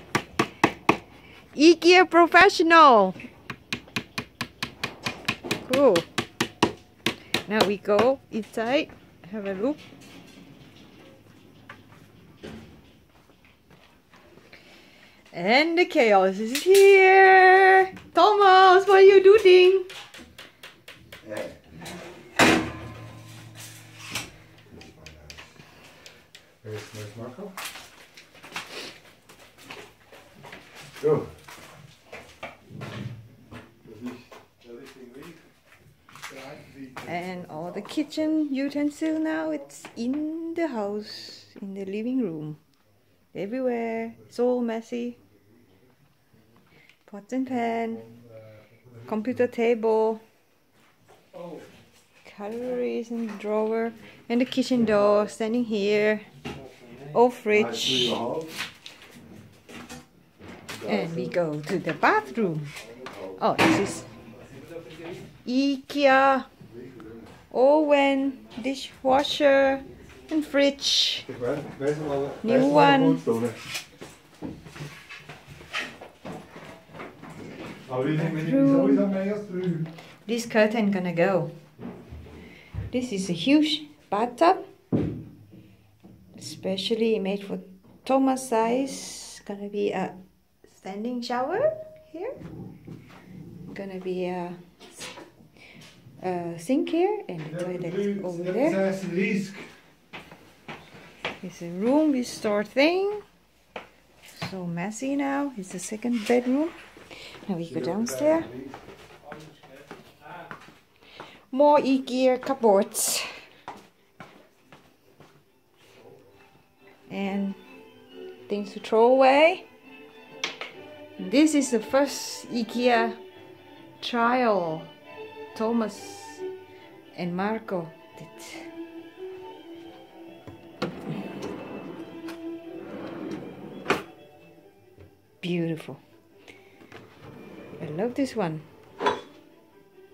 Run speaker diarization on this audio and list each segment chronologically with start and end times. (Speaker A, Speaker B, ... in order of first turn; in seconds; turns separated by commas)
Speaker A: 1.5-3.2, Speaker A: 5.6-6.1, Speaker A: 7.5-9.8, Speaker A: 15.3-19.9, Speaker B: 21.2-21.6, Speaker B: 24.7-25.4, Speaker B: 26.6-27.5, Speaker B: 31.0-31.3, Speaker B: 33.8-35.4, Speaker B: 36.5-37.0, Speaker A: 37.0-42.6, Speaker A: 43.3-45.2, Speaker A: 47.1-48.0, Speaker A: 49.0-50.2, Speaker A: 52.2-56.3, Speaker A: 57.1-58.2, Speaker B: 57.5-58.6, Speaker B: 60.8-61.4, Speaker A: 60.8-62.7, Speaker A: 63.4-64.1, Speaker A: 65.5-66.5, Speaker B: 66.7-67.3, Speaker A: 67.5-71.3, Speaker B: 71.3-73.6, Speaker A: 72.4-73.2, Speaker B: 77.9-79.9, Speaker A: 78.0-79.2, Speaker A: 80.3-81.5, Speaker A: 82.9-84.6, Speaker A: 86.4-90.2, Speaker A: 90.7-92.4, Speaker A: 93.7-94.6, Speaker A: 96.2-98.8, Speaker B: 97.5-99.7, Speaker A: 101.4-103.2, Speaker A: 104.3-106.8, Speaker A: 107.5-108.5, Speaker B: 107.7-108.8, Speaker A: 111.5-113.4, Speaker A: 117.1-117.6, Speaker A: 118.5-119.7, Speaker A: 121.2-123.2, Speaker A: 124.0-124.9, Speaker A: 125.5-126.5, Speaker A: 127.2-128.7, Speaker A: 135.4-136.0, Speaker A: 137.8-138.7